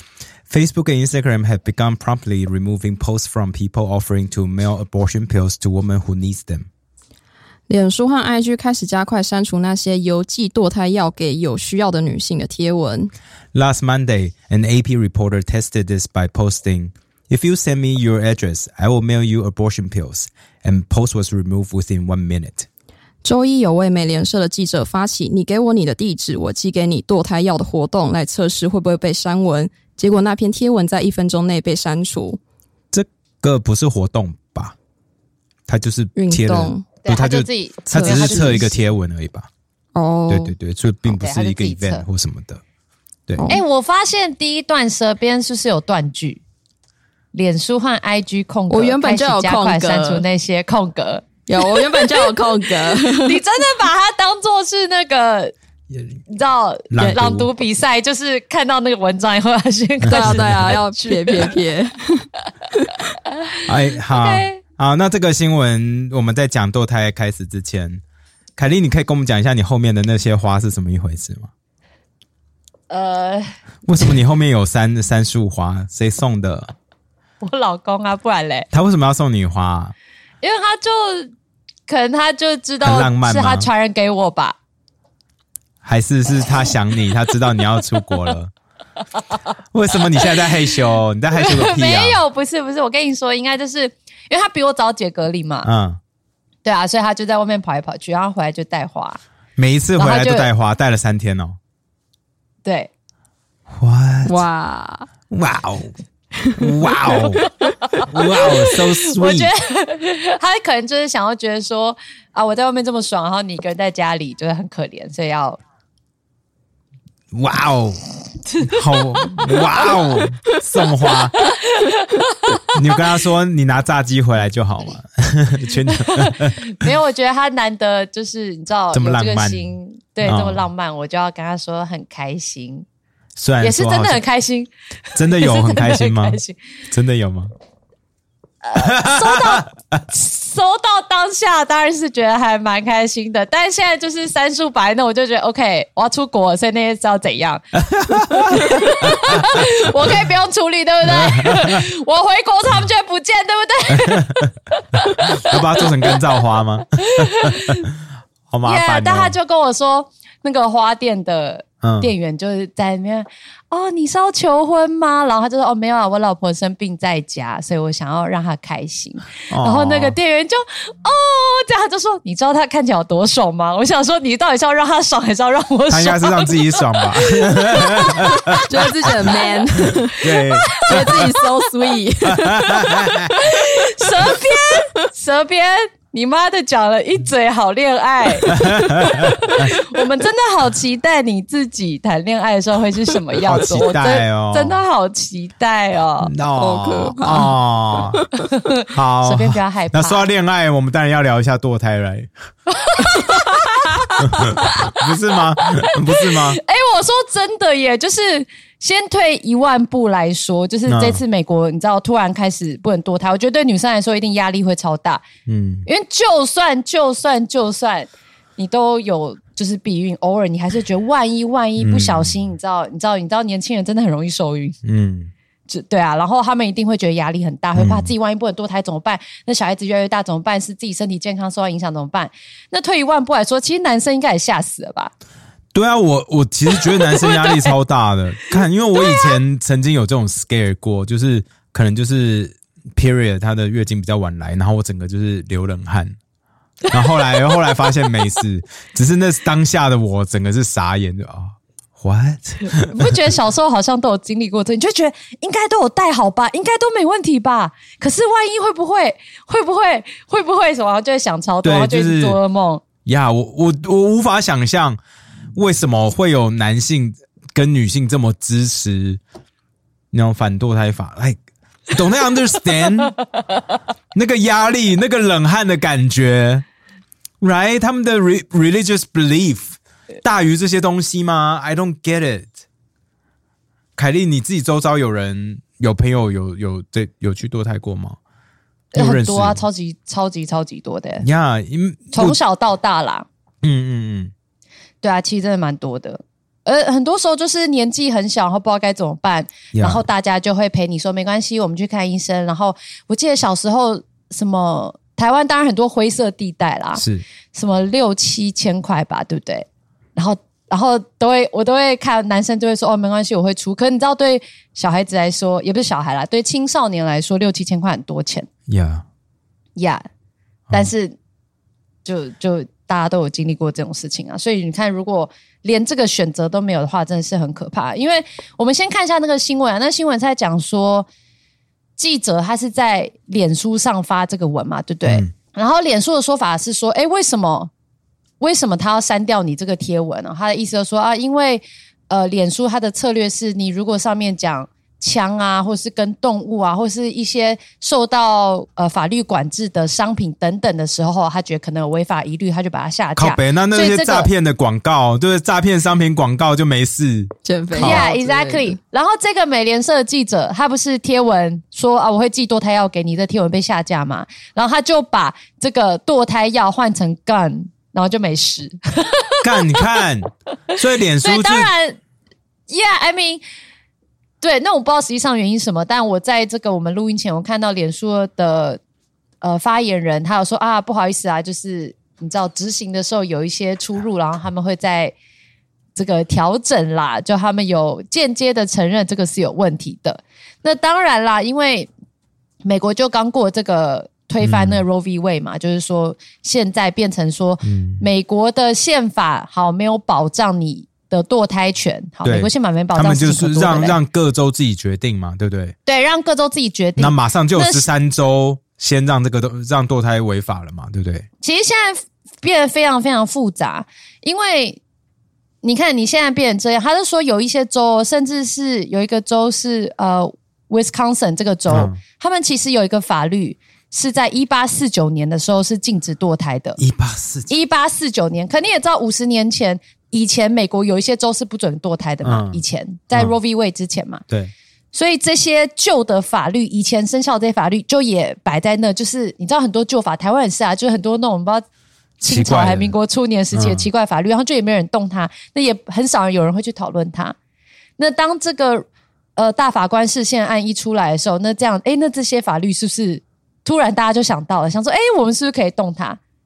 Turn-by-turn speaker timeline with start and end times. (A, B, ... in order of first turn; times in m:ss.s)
0:00.5-0:06.7 A
0:07.7-0:13.1 B
0:13.5-0:22.7 A
0:23.2-0:32.4 B
0:32.9-0:34.8 A
0:35.7-0:39.5 A
0:36.2-0:36.9 B
0:37.0-0:38.7 C
0:37.9-0:38.6 B
0:39.9-0:40.5 B
0:40.3-0:42.6 A
0:41.0-0:42.0 C
0:43.4-0:43.6 B
0:43.5-0:46.4 C
0:47.3-0:55.5 C
0:48.7-0:50.2 B
0:51.5-0:53.4 B
0:56.3-1:01.5 C
0:56.9-0:57.5 A
1:00.0-1:00.7 A
1:00.1-1:02.9 B
1:03.6-1:04.6 C
1:03.6-1:08.0 A
1:08.6-1:11.5 A
1:12.9-1:13.5 C
1:13.8-1:16.7 A
1:17.4-1:18.7 C
1:18.7-1:19.9 A
1:20.4-1:21.3 C
1:21.9-1:24.6 C
1:22.8-1:23.7 A
1:25.8-1:28.5 A
1:29.7-1:32.2 A
1:31.3-1:35.7 C
1:35.6-1:36.0 A
1:36.6-1:39.2 C
1:39.6-1:41.6 A
1:40.0-1:40.5 C
1:42.6-1:42.9 C
1:43.7-1:44.4 A
1:44.2-1:45.1 B
1:45.3-1:45.9 A
1:46.4-1:46.7 B
1:46.5-1:47.4 A
1:47.1-1:55.6 C
1:48.0-1:49.5 A
1:57.3-1:58.0 A
1:58.6-2:01.4 A
2:01.4-2:02.7 C
2:02.7-2:06.9 A
2:05.9-2:12.8 C
2:08.9-2:10.6 A
2:13.4-2:14.2 A
2:13.6-2:16.6 C
2:15.2-2:17.5 A
2:18.6-2:35.8 C
2:18.8-2:19.7 A
2:27.9-2:30.1 A
2:31.1-2:31.8 A
2:34.0-2:34.4 A
2:35.3-2:37.8 A
2:37.0-2:37.9 C
2:38.5-2:39.3 A
2:38.6-3:01.9 C
2:41.8-2:42.1 A
2:49.5-2:50.2 A
2:55.9-2:59.1 A
2:58.6-3:03.0 B
2:59.8-3:01.2 A
3:02.3-3:03.3 A
3:02.7-3:16.3 C
3:08.4-3:09.7 A
3:13.4-3:14.8 A
3:16.2-3:18.3 A
3:16.6-3:18.2 B
3:18.3-3:20.3 C
3:18.9-3:22.3 A
3:22.7-3:25.0 C
3:24.3-3:26.6 A
3:25.7-3:35.2 C
3:30.9-3:31.2 A
3:35.5-3:35.8 A
3:35.8-3:44.8 C
3:41.8-3:42.5 A
3:44.8-3:45.3 A
3:45.7-3:55.1 C
3:47.8-3:48.1 A
3:55.7-4:06.2 A
3:57.2-3:57.6 C
4:06.9-4:07.7 C
4:06.9-4:13.0 A
4:12.6-4:22.8 C
4:21.6-4:22.4 A
4:23.0-4:25.0 A
4:25.5-4:29.2 A
4:30.1-4:31.4 A
4:31.9-4:33.2 A
4:34.1-4:36.6 A
4:37.4-4:42.5 A
4:44.0-4:48.2 A
4:48.9-4:49.6 A
4:48.9-4:51.2 C
4:51.2-4:52.4 A
4:52.1-4:53.3 C
4:53.6-4:54.3 A
4:55.0-5:18.5 C
4:59.7-5:00.0 A
5:07.0-5:07.2 A
5:18.7-5:19.0 A
5:19.8-5:20.0 C
5:20.7-5:21.2 C
5:22.0-5:31.1 C
5:32.0-5:37.7 C
5:35.0-5:35.3 A
5:38.4-5:54.3 C
5:53.2-5:58.1 A
5:57.4-5:58.8 B
5:57.7-6:10.0 C
6:09.4-6:11.7 A
6:11.2-6:12.0 C
6:12.7-6:13.4 C
6:14.4-6:18.8 C
6:19.4-6:25.1 C
6:25.9-6:31.9 C
6:32.6-6:44.0 C
6:34.4-6:34.8 A
6:37.6-6:38.0 A
6:42.2-6:45.7 A
6:45.8-6:47.9 C
6:47.0-6:51.3 A
6:51.4-6:54.8 C
6:55.6-7:06.8 C
7:01.7-7:02.0 A
7:06.8-7:07.5 A
7:07.5-7:14.2 C
7:12.2-7:12.6 A
7:14.9-7:21.6 C
7:22.2-7:22.9 A
7:22.2-7:27.4 C
7:23.5-7:23.9 A
7:28.0-7:28.8 C
7:29.4-7:36.2 C